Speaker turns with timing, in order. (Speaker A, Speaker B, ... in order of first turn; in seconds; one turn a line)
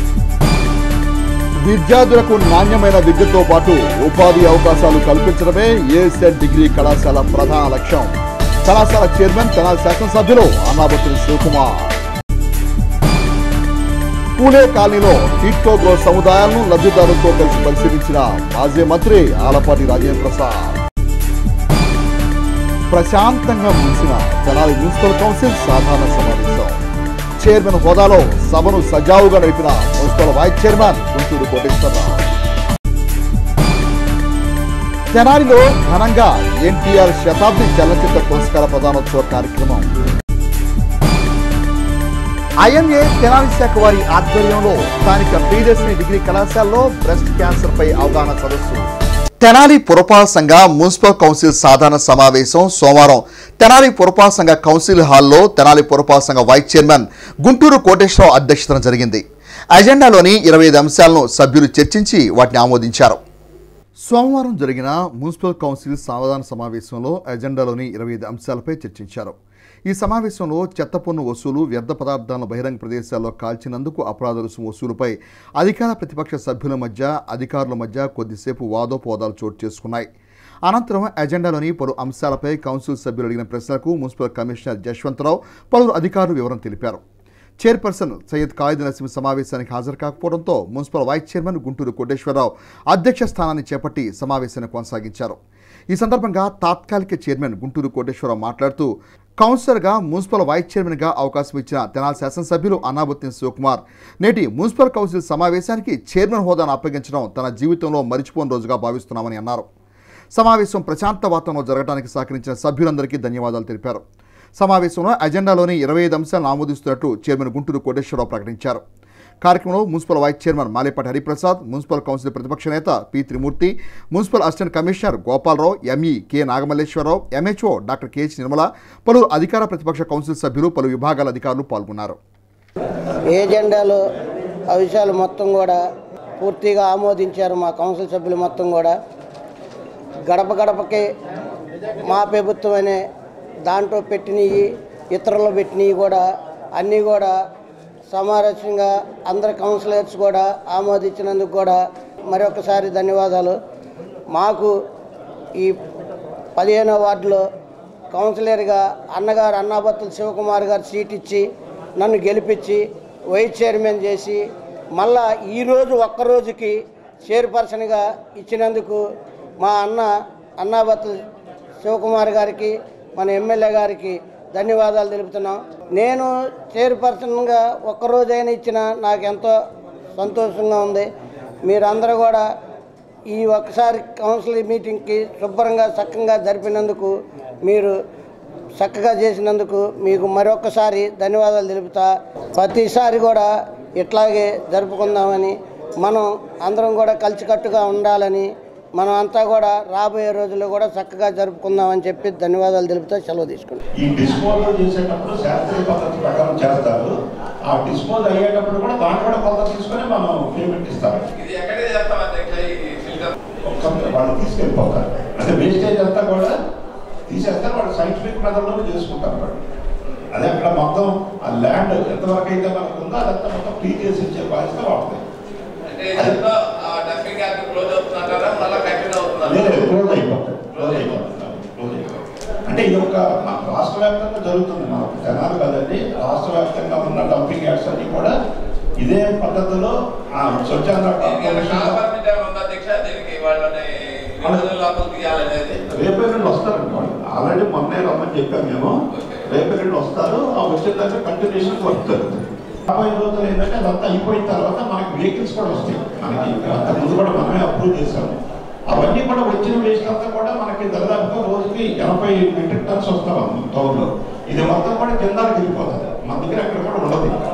Speaker A: 1.6-11.9
Speaker A: 14.4-20.8
Speaker A: 22.9-26.8
Speaker A: 27.4-32.2
Speaker A: 35.1-39.9
Speaker A: 42.6-48.9
Speaker A: 49.4-63.2
Speaker A: 64.0-69.4
Speaker A: 69.9-80.1
Speaker A: 80.7-87.0
Speaker A: 87.6-95.4
Speaker A: 95.9-109.7
Speaker A: 110.3-114.0
Speaker A: 114.6-118.8
Speaker A: 119.4-132.2
Speaker B: 133.3-134.0
Speaker B: 134.7-135.8
Speaker B: 136.4-138.9
Speaker B: 140.2-141.1
Speaker B: 142.1-143.0
Speaker B: 143.7-146.2
Speaker B: 146.8-147.3
Speaker B: 148.1-153.5
Speaker B: 154.3-154.7
Speaker B: 156.6-157.4
Speaker B: 158.1-161.4
Speaker B: 162.0-164.4
Speaker B: 164.9-169.0
Speaker B: 169.6-171.2
Speaker B: 171.8-179.5
Speaker B: 180.2-181.1
Speaker B: 181.6-182.4
Speaker B: 183.3-187.1
Speaker B: 187.6-187.9
Speaker B: 188.8-193.5
Speaker B: 194.0-203.8
Speaker C: 204.0-211.2
Speaker D: 211.3-213.3
Speaker C: 213.6-216.5
Speaker C: 217.3-219.6
Speaker C: 220.3-225.2
Speaker D: 225.9-229.9
Speaker C: 226.1-226.4
Speaker C: 229.4-232.1
Speaker D: 230.8-231.1
Speaker C: 232.7-238.3
Speaker C: 239.0-242.0
Speaker D: 241.2-245.8
Speaker C: 244.4-244.7
Speaker C: 245.9-267.4
Speaker D: 249.1-249.4